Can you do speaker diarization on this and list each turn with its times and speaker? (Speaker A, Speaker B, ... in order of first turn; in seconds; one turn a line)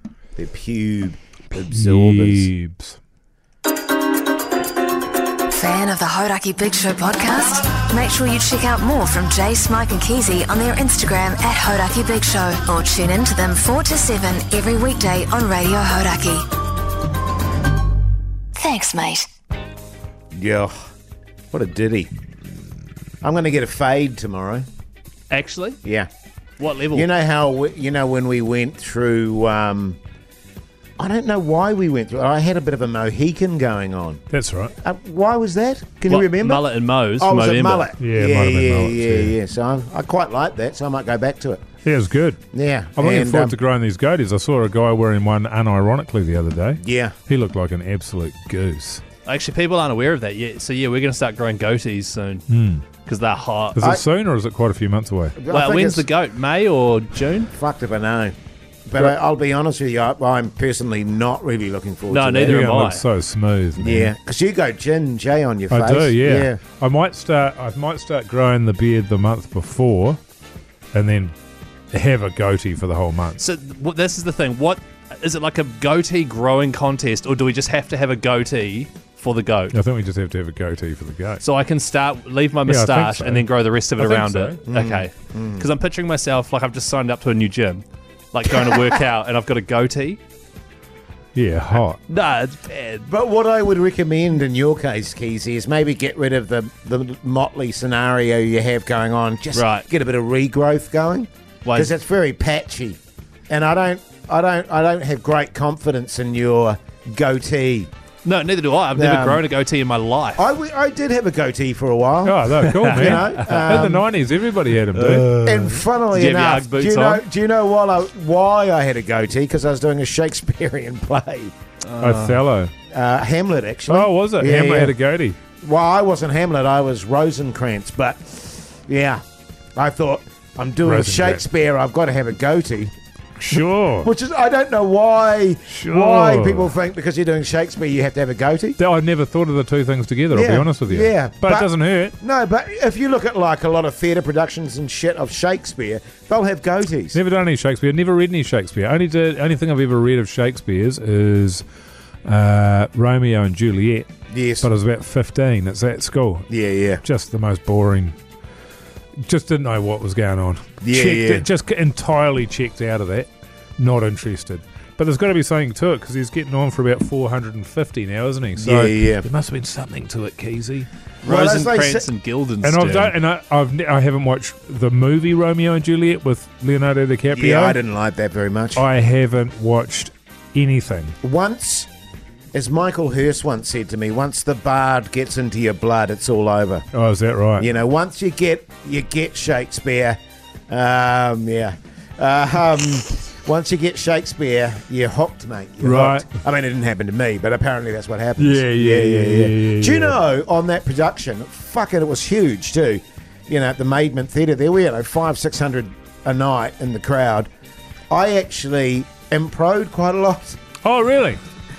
Speaker A: 0.4-2.5
Speaker B: 1.5-3.0
Speaker C: 5.5-16.5
Speaker C: 18.6-19.3
Speaker A: 20.3-20.8
Speaker A: 21.5-22.1
Speaker A: 23.2-24.6
Speaker D: 25.3-25.8
Speaker A: 25.8-26.1
Speaker D: 26.6-27.1
Speaker A: 26.9-30.0
Speaker A: 31.0-34.2
Speaker B: 34.3-34.7
Speaker A: 34.8-36.7
Speaker D: 36.1-37.9
Speaker A: 37.2-41.6
Speaker B: 38.0-39.4
Speaker B: 41.8-42.4
Speaker A: 42.5-43.5
Speaker B: 43.0-49.0
Speaker A: 46.8-47.2
Speaker D: 49.3-52.4
Speaker B: 52.5-52.9
Speaker D: 53.0-53.8
Speaker B: 53.8-55.4
Speaker A: 55.4-56.1
Speaker D: 55.5-57.5
Speaker A: 57.5-58.4
Speaker A: 58.9-62.7
Speaker D: 62.1-63.0
Speaker B: 62.4-64.1
Speaker A: 63.8-66.6
Speaker B: 65.7-70.2
Speaker B: 70.9-71.3
Speaker B: 71.9-73.4
Speaker D: 73.4-79.8
Speaker B: 79.7-81.4
Speaker D: 81.4-90.2
Speaker B: 82.7-84.6
Speaker A: 84.7-85.7
Speaker B: 91.3-92.0
Speaker D: 92.1-93.1
Speaker A: 93.1-107.9
Speaker D: 99.5-99.9
Speaker D: 101.7-101.9
Speaker D: 108.2-110.4
Speaker A: 109.0-109.4
Speaker A: 110.4-114.1
Speaker B: 112.2-115.3
Speaker D: 112.6-113.9
Speaker A: 114.9-121.5
Speaker D: 115.1-117.2
Speaker D: 121.8-122.4
Speaker B: 122.0-122.7
Speaker A: 122.9-125.0
Speaker B: 123.9-125.4
Speaker A: 125.6-129.2
Speaker A: 129.8-132.9
Speaker B: 130.8-131.4
Speaker B: 133.4-134.1
Speaker A: 133.5-138.8
Speaker B: 135.7-136.7
Speaker B: 138.8-142.2
Speaker A: 140.3-147.2
Speaker B: 147.1-151.6
Speaker B: 152.2-154.1
Speaker A: 154.3-154.7
Speaker B: 154.6-156.5
Speaker A: 156.5-157.0
Speaker B: 157.0-158.2
Speaker B: 159.2-170.9
Speaker A: 160.8-161.4
Speaker A: 168.6-169.3
Speaker D: 171.2-173.1
Speaker A: 171.2-172.1
Speaker B: 172.6-177.8
Speaker A: 177.3-178.8
Speaker B: 178.8-181.1
Speaker A: 181.2-181.9
Speaker A: 182.5-186.8
Speaker B: 186.9-187.7
Speaker A: 187.6-207.5
Speaker B: 195.8-196.2
Speaker B: 198.4-200.2
Speaker A: 208.1-210.6
Speaker B: 210.8-211.4